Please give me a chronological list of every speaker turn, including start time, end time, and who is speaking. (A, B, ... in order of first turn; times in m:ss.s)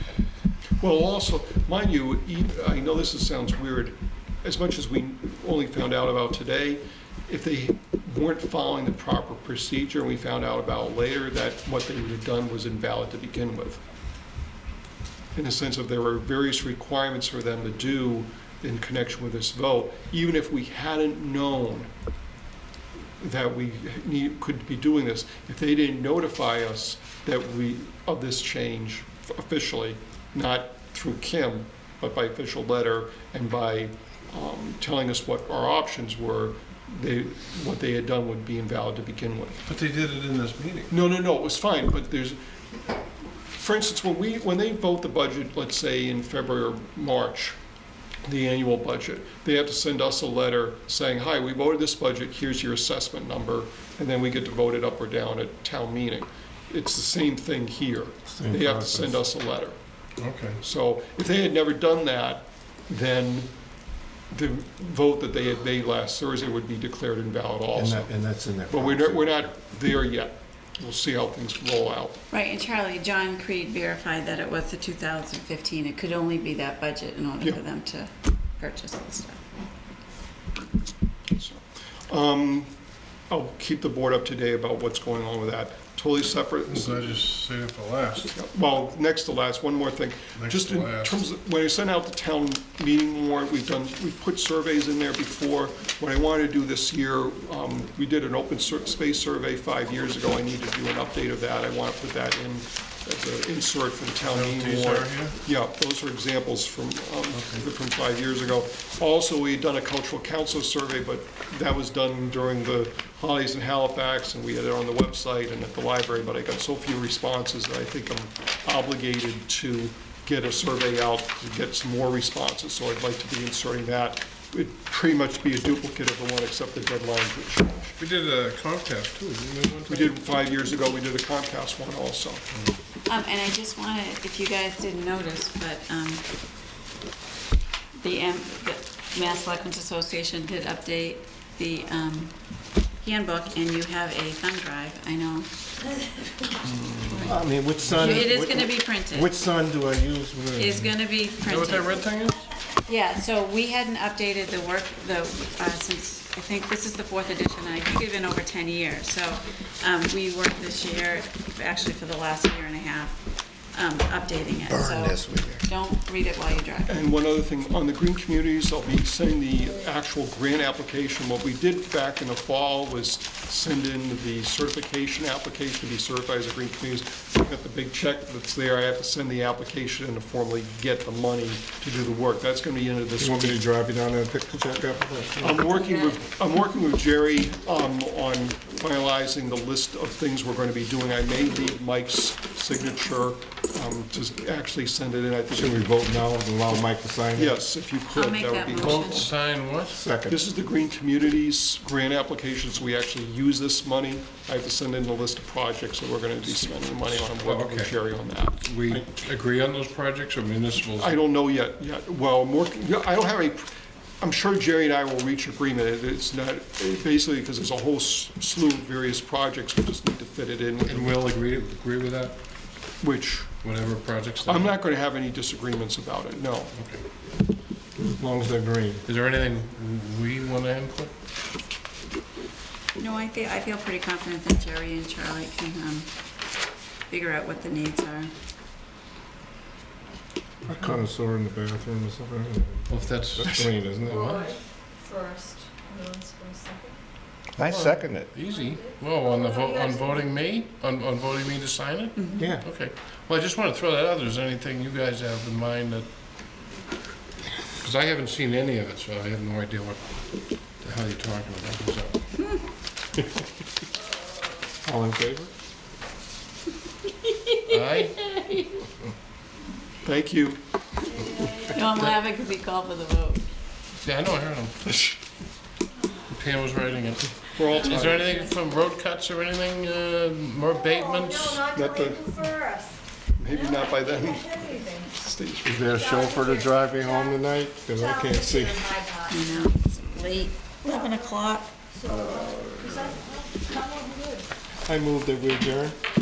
0:00.8-0:13.8 A
0:15.4-0:21.9 A
0:23.2-0:39.6 A
0:39.6-0:40.9 B
0:40.9-0:42.4 A
0:43.2-0:47.6 A
0:48.2-0:59.8 A
0:58.3-0:59.2 C
1:00.2-1:00.6 B
1:00.6-1:03.5 A
1:04.3-1:08.1 A
1:07.7-1:09.5 C
1:08.7-1:12.2 A
1:12.3-1:19.4 D
1:21.3-1:22.7 A
1:23.3-1:27.2 A
1:26.7-1:28.3 B
1:28.3-2:08.0 A
1:30.4-1:31.2 B
1:44.2-1:45.4 B
1:47.3-1:47.6 B
2:08.0-2:10.1 B
2:09.9-2:12.4 A
2:12.5-2:12.8 B
2:13.1-2:16.3 D
2:17.9-2:25.5 D
2:27.0-2:27.4 D
2:27.2-2:30.9 C
2:28.0-2:29.3 D
2:30.6-2:32.0 D
2:31.4-2:32.5 B
2:32.8-2:47.1 D
2:44.7-2:45.6 C
2:46.9-3:03.6 A
3:03.2-3:05.6 C
3:05.4-3:15.9 A
3:15.5-3:17.6 C
3:17.4-3:19.3 A
3:18.1-3:19.3 D
3:18.8-3:20.0 B
3:19.9-3:20.4 C
3:20.3-3:28.6 A
3:27.1-3:28.0 B
3:28.6-3:31.2 B
3:31.0-3:41.2 A
3:40.8-3:42.4 B
3:43.0-3:43.6 A
3:43.6-3:44.8 B
3:44.5-3:46.7 A
3:46.7-3:47.0 B
3:48.0-3:49.0 C
3:49.0-3:51.1 B
3:53.0-3:56.1 D
3:57.1-3:58.3 D
4:00.6-4:04.3 C
4:02.9-4:04.5 B
4:04.0-4:07.0 E
4:07.6-4:08.3 C
4:07.6-4:16.1 B
4:08.7-4:10.1 E
4:12.2-4:12.4 D
4:12.4-4:12.6 C
4:17.8-4:20.0 B
4:20.8-4:22.2 B
4:24.8-4:25.5 C
4:27.2-4:28.7 D
4:27.7-4:28.3 B
4:30.0-4:30.6 A
4:31.2-4:31.8 E
4:31.7-4:33.4 D
4:34.0-4:34.9 B
4:36.3-4:41.7 B
4:37.5-4:38.4 A
4:40.8-4:45.2 E
4:41.7-4:42.4 A
4:43.4-4:44.6 A
4:45.2-4:45.8 A
4:45.6-4:49.0 C
4:45.8-4:49.7 E
4:49.3-4:51.7 D
4:50.9-4:51.1 E
4:51.9-4:54.5 E
4:52.2-4:52.9 A
4:54.8-4:56.0 C